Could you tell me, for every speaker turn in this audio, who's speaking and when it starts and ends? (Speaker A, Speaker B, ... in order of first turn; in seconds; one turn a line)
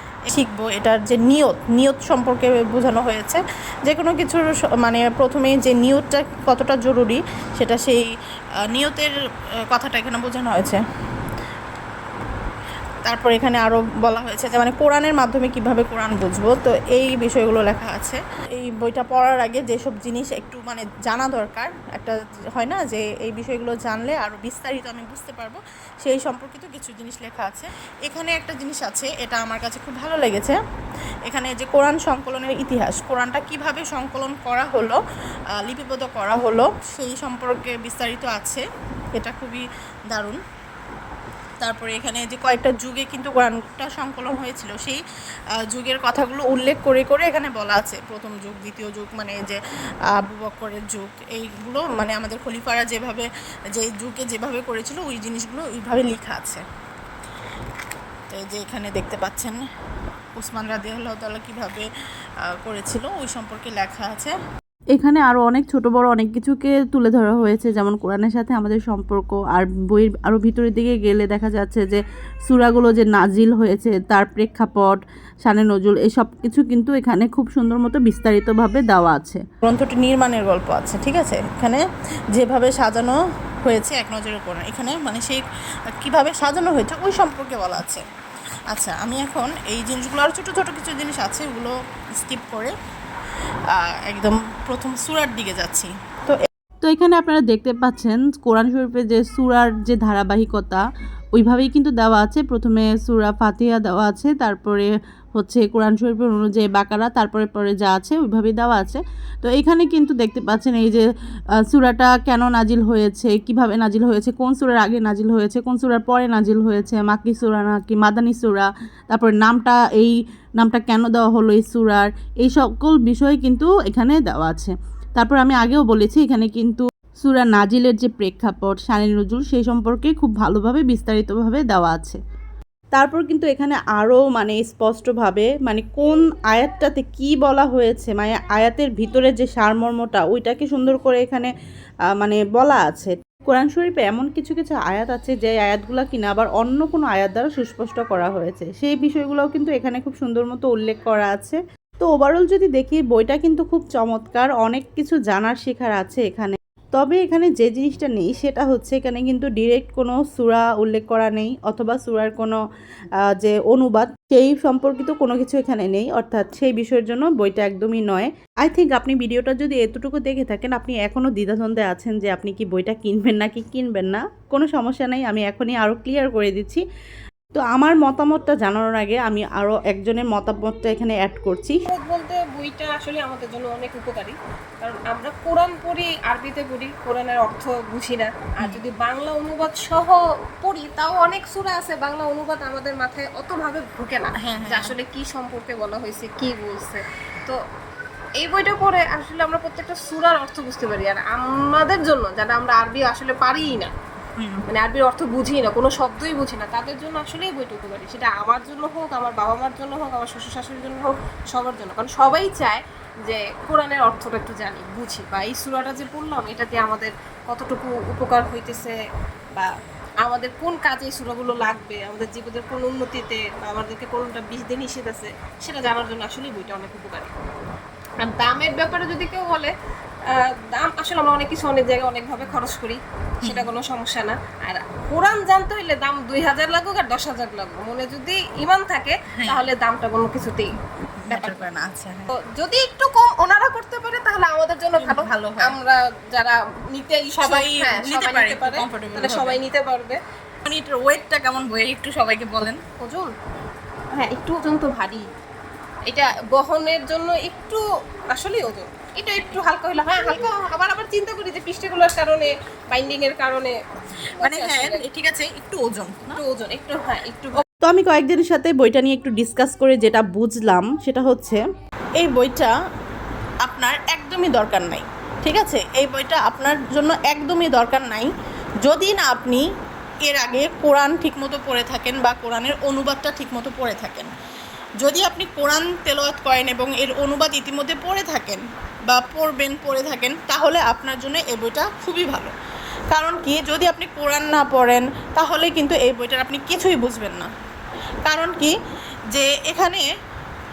Speaker A: 0.3-8.1
Speaker A: 8.7-9.1
Speaker A: 9.7-10.8
Speaker A: 13.1-30.6
Speaker A: 31.3-35.0
Speaker A: 35.6-38.6
Speaker A: 39.2-40.4
Speaker A: 41.6-45.0
Speaker A: 45.7-49.6
Speaker A: 50.1-56.6
Speaker A: 58.3-59.6
Speaker A: 60.4-61.9
Speaker A: 62.4-64.3
Speaker B: 64.9-79.4
Speaker A: 79.6-81.8
Speaker A: 82.3-85.4
Speaker A: 86.0-88.0
Speaker A: 88.7-92.7
Speaker A: 93.8-96.4
Speaker B: 96.8-100.8
Speaker B: 101.3-111.0
Speaker B: 111.7-132.2
Speaker B: 132.9-141.5
Speaker B: 142.2-162.6
Speaker B: 163.4-176.8
Speaker B: 177.5-181.8
Speaker C: 181.9-197.6
Speaker B: 194.4-194.8
Speaker C: 198.4-203.9
Speaker C: 204.7-218.9
Speaker C: 220.2-227.3
Speaker C: 228.2-229.7
Speaker C: 230.3-240.7
Speaker B: 241.3-242.2
Speaker C: 241.3-241.6
Speaker C: 242.3-250.2
Speaker B: 245.0-245.6
Speaker B: 248.0-249.5
Speaker B: 250.7-252.7
Speaker C: 253.0-253.3
Speaker C: 254.1-255.2
Speaker C: 256.1-257.8
Speaker C: 258.3-263.7
Speaker C: 264.4-265.0
Speaker A: 264.4-266.3
Speaker B: 265.4-266.1
Speaker C: 266.4-267.5
Speaker B: 267.8-271.6
Speaker A: 272.2-272.7
Speaker A: 273.6-278.3
Speaker A: 278.8-279.6
Speaker A: 280.2-284.3
Speaker A: 285.0-292.5
Speaker A: 293.1-297.5
Speaker A: 298.2-298.7
Speaker A: 299.3-300.0